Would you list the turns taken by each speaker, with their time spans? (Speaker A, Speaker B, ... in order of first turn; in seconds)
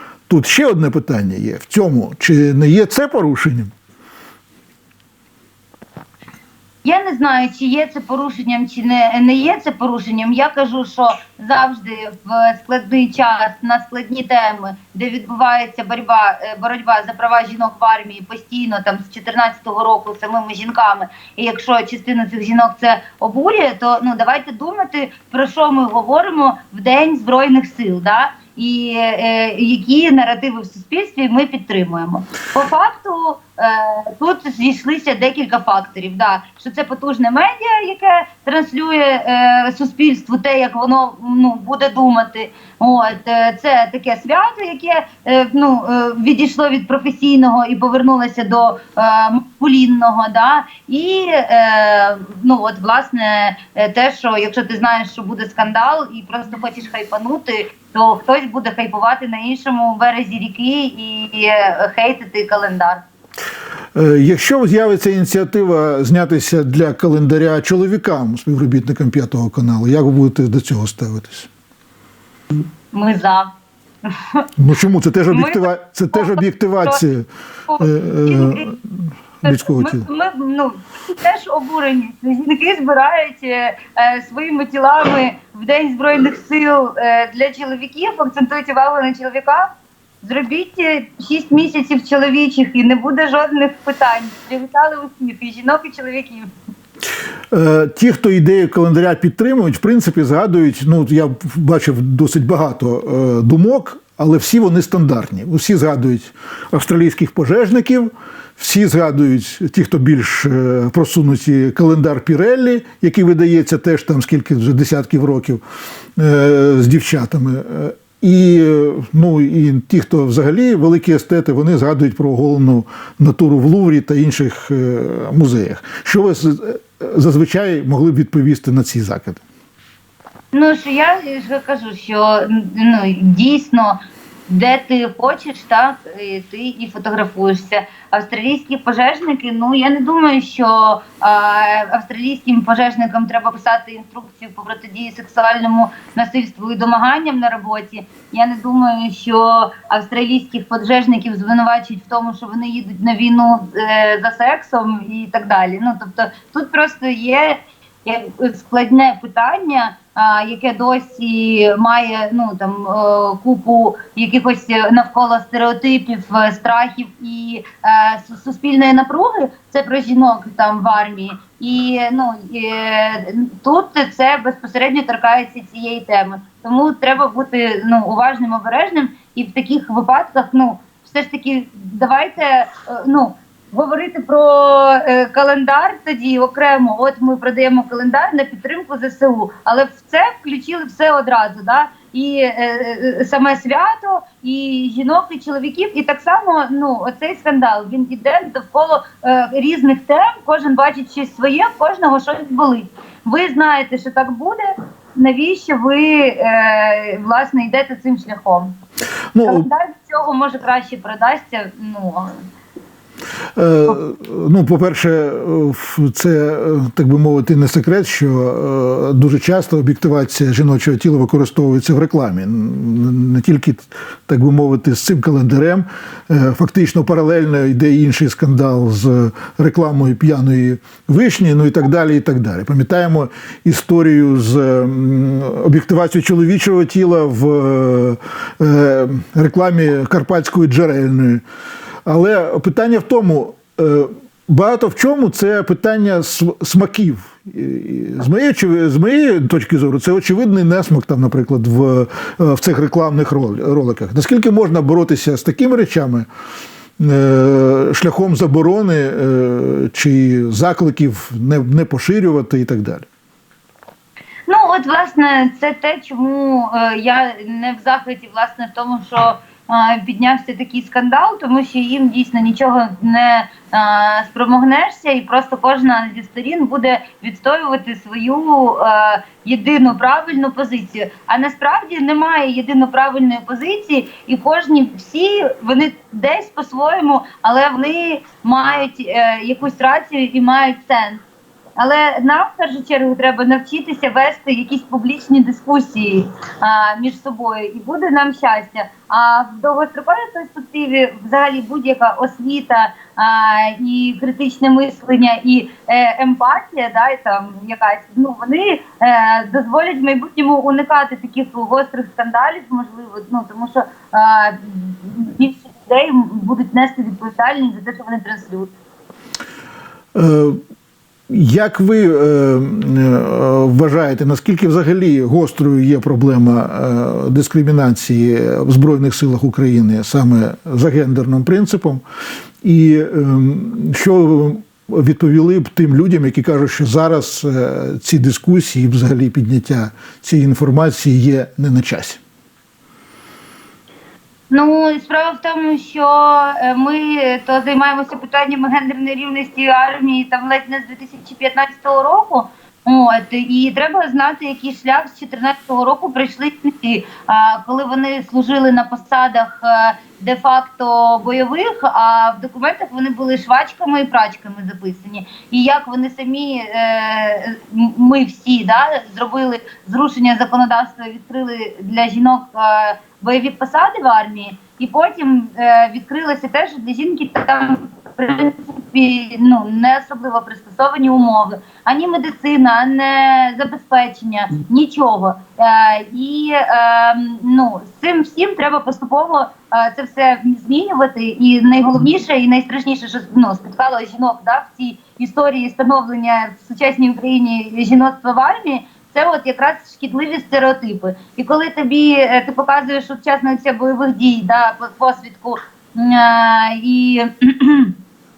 Speaker A: 0.3-3.7, 63.9-71.5, 74.6-77.3, 77.8-80.0, 97.5-115.6, 116.2-129.4, 209.3-209.7, 213.6-241.4, 242.1-256.3, 257.0-263.1, 320.1-320.6, 321.3-332.0, 332.6-342.2
Speaker B: 6.8-63.0, 72.9-73.5, 74.0-74.4, 75.3-77.0, 77.7-78.7, 79.4-89.7, 90.2-96.5, 130.5-208.8, 209.4-212.4, 264.5-291.2, 291.8-318.7, 344.5-407.9